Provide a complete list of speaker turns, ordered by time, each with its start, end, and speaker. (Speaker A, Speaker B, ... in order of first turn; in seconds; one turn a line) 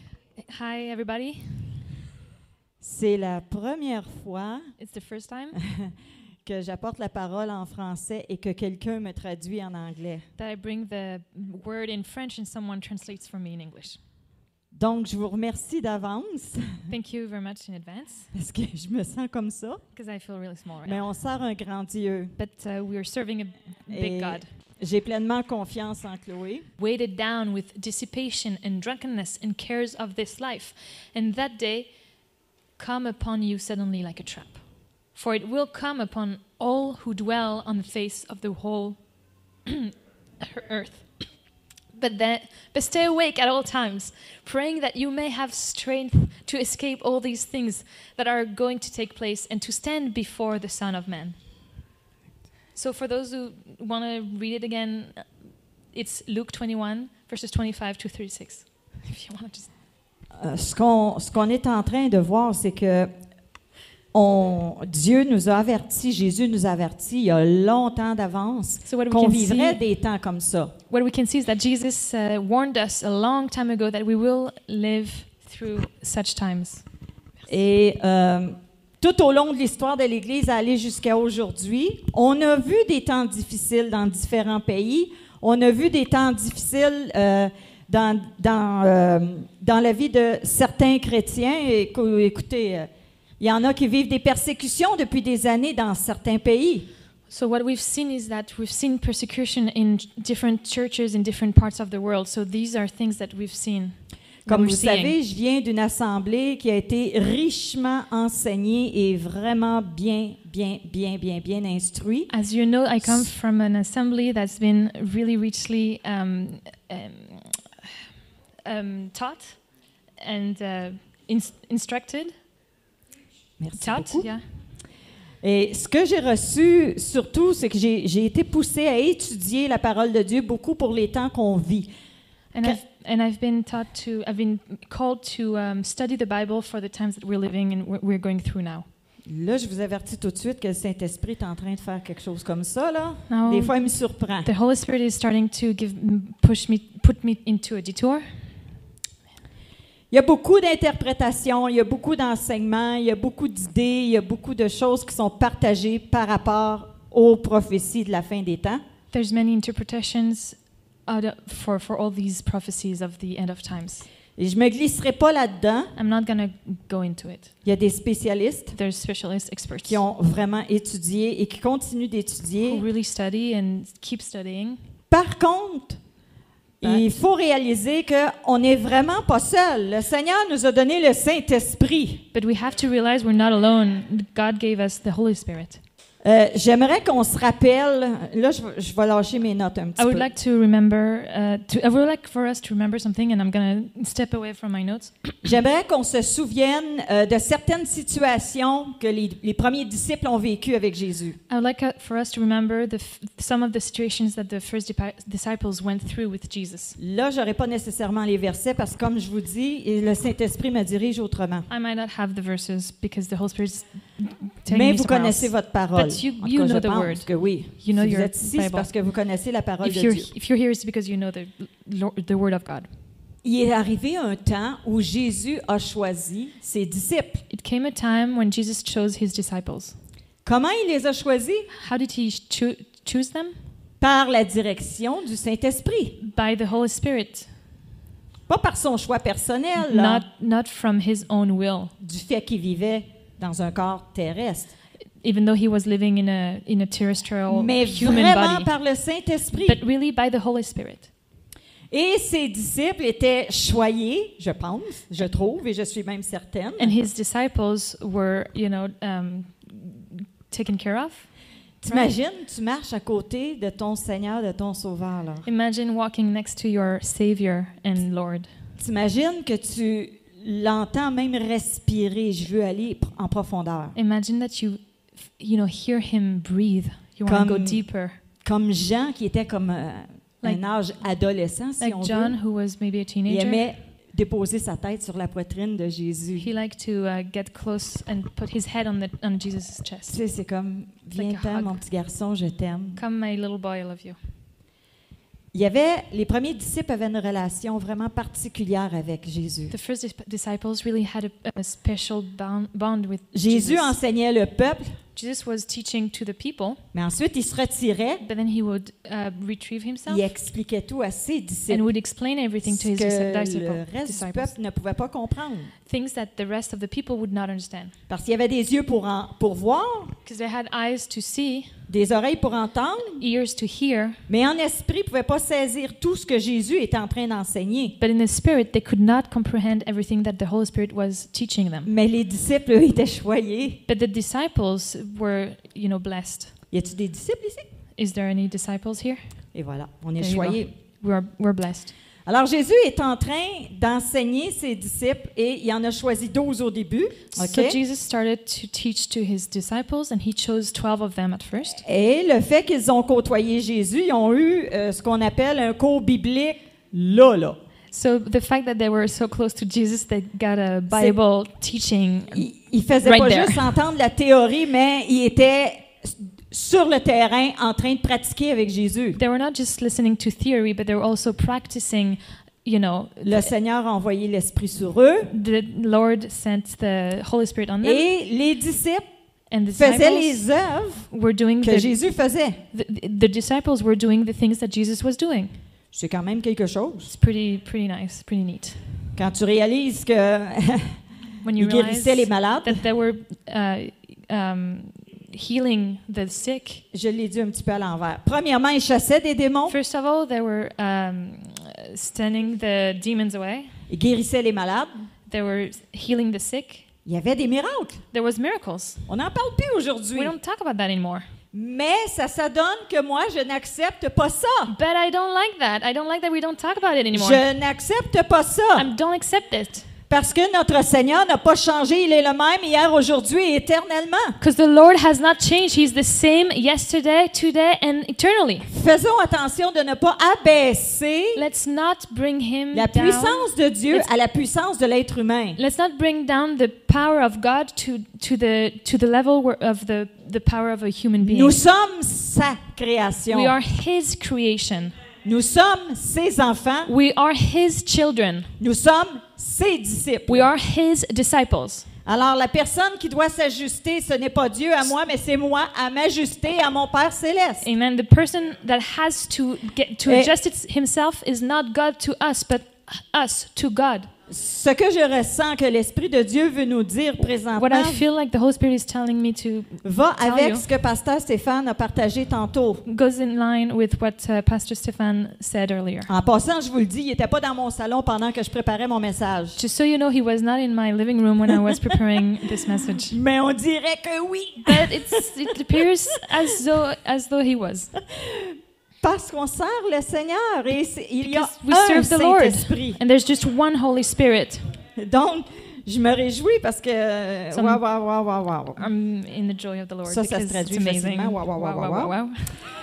Speaker A: 0.5-1.8
Speaker B: 2.8-4.7
Speaker A: 4.8-5.6
Speaker B: 5.7-5.9
Speaker B: 6.5-10.3
Speaker A: 10.4-14.0
Speaker B: 14.8-16.8
Speaker A: 16.9-18.3
Speaker B: 18.3-19.8
Speaker A: 19.9-21.0
Speaker B: 20.9-22.4
Speaker A: 22.4-24.5
Speaker B: 23.9-26.7
Speaker A: 26.8-31.9
Speaker A: 32.8-34.6
Speaker A: 35.1-39.0
Speaker A: 39.6-41.0
Speaker A: 41.9-51.4
Speaker A: 52.8-55.3
Speaker A: 55.9-59.7
Speaker B: 60.4-63.1
Speaker B: 64.1-70.7
Speaker A: 68.9-69.8
Speaker A: 70.9-76.8
Speaker B: 77.5-92.9
Speaker B: 93.4-96.9
Speaker A: 97.3-105.2
Speaker B: 104.5-112.3
Speaker A: 112.3-117.7
Speaker A: 118.7-119.6
Speaker A: 120.2-122.3
Speaker B: 123.6-124.3
Speaker A: 123.8-124.4
Speaker B: 125.4-131.9
Speaker A: 132.5-138.9
Speaker B: 139.3-144.5
Speaker A: 143.3-143.9
Speaker A: 144.4-148.3
Speaker B: 150.1-158.8
Speaker A: 159.1-164.1
Speaker B: 164.4-165.9
Speaker A: 165.9-167.5
Speaker B: 167.7-168.8
Speaker A: 168.7-170.0
Speaker B: 169.8-172.8
Speaker A: 172.7-174.8
Speaker B: 175.1-176.0
Speaker B: 176.8-182.2
Speaker A: 182.3-185.8
Speaker B: 186.2-190.3
Speaker A: 190.0-195.4
Speaker B: 195.4-201.4
Speaker A: 201.5-207.0
Speaker B: 207.0-211.7
Speaker A: 211.7-218.9
Speaker B: 214.7-220.3
Speaker A: 219.8-222.9
Speaker B: 223.4-227.4
Speaker A: 227.5-230.0
Speaker B: 230.4-231.7
Speaker A: 231.7-233.5
Speaker B: 234.0-236.2
Speaker A: 236.2-237.5
Speaker B: 238.5-240.2
Speaker A: 239.8-241.9
Speaker B: 242.0-244.7
Speaker A: 245.2-248.7
Speaker B: 247.5-249.8
Speaker A: 249.6-251.1
Speaker B: 251.9-256.9
Speaker A: 256.8-261.3
Speaker B: 261.8-265.5
Speaker A: 261.9-262.1
Speaker A: 265.5-268.5
Speaker B: 268.8-274.0
Speaker A: 273.9-278.2
Speaker B: 277.3-277.8
Speaker B: 278.4-282.4
Speaker A: 281.8-283.7
Speaker B: 283.3-286.5
Speaker A: 286.4-290.2
Speaker B: 290.1-293.0
Speaker A: 291.2-291.8
Speaker A: 293.0-294.2
Speaker B: 295.5-299.7
Speaker A: 299.7-304.0
Speaker B: 303.3-305.0
Speaker A: 305.1-306.8
Speaker B: 306.9-308.2
Speaker A: 308.2-310.3
Speaker B: 310.1-311.9
Speaker A: 311.7-314.6
Speaker B: 312.6-315.7
Speaker A: 315.9-317.9
Speaker B: 318.1-320.1
Speaker A: 320.2-321.8
Speaker B: 321.9-323.2
Speaker A: 323.2-324.2
Speaker B: 324.3-328.0
Speaker A: 328.0-331.9
Speaker B: 331.9-333.8
Speaker A: 333.9-336.5
Speaker B: 336.7-337.7
Speaker A: 338.0-339.2
Speaker B: 339.5-340.7
Speaker A: 340.2-341.9
Speaker B: 342.3-347.8
Speaker A: 347.3-351.8
Speaker B: 351.8-357.6
Speaker A: 357.9-362.5
Speaker B: 362.3-369.2
Speaker A: 363.0-363.7
Speaker A: 369.2-373.5
Speaker B: 373.2-375.3
Speaker A: 375.3-378.1
Speaker B: 377.8-379.1
Speaker A: 379.5-380.5
Speaker B: 379.7-381.1
Speaker A: 381.0-382.0
Speaker B: 381.6-382.6
Speaker A: 382.7-385.6
Speaker B: 385.9-387.1
Speaker A: 387.1-388.8
Speaker B: 389.2-391.0
Speaker A: 391.4-396.8
Speaker B: 391.6-392.8
Speaker B: 396.9-399.8
Speaker A: 399.7-403.7
Speaker B: 403.9-404.9
Speaker A: 405.3-406.9
Speaker B: 407.1-408.0
Speaker A: 408.1-409.1
Speaker B: 409.1-410.4
Speaker A: 410.1-411.3
Speaker B: 411.5-414.7
Speaker A: 414.7-417.4
Speaker B: 417.1-418.9
Speaker A: 418.8-419.9
Speaker B: 420.1-424.4
Speaker A: 424.4-428.7
Speaker B: 428.7-431.4
Speaker A: 431.4-434.1
Speaker B: 432.7-435.6
Speaker A: 435.6-441.6
Speaker B: 441.2-443.5
Speaker A: 443.3-444.9
Speaker B: 445.2-446.9
Speaker A: 446.9-448.5
Speaker B: 448.6-450.5
Speaker A: 450.3-451.9
Speaker B: 452.1-457.7
Speaker A: 457.6-464.1
Speaker B: 464.3-468.1
Speaker A: 467.2-470.7
Speaker B: 469.8-472.8
Speaker A: 472.9-476.1
Speaker B: 476.1-479.6
Speaker A: 479.6-483.2
Speaker B: 481.6-482.0
Speaker B: 483.1-485.8
Speaker A: 484.6-487.9
Speaker B: 488.1-493.0
Speaker A: 491.2-494.8
Speaker B: 495.0-498.9
Speaker A: 497.5-497.8
Speaker A: 498.8-502.6
Speaker B: 500.1-502.1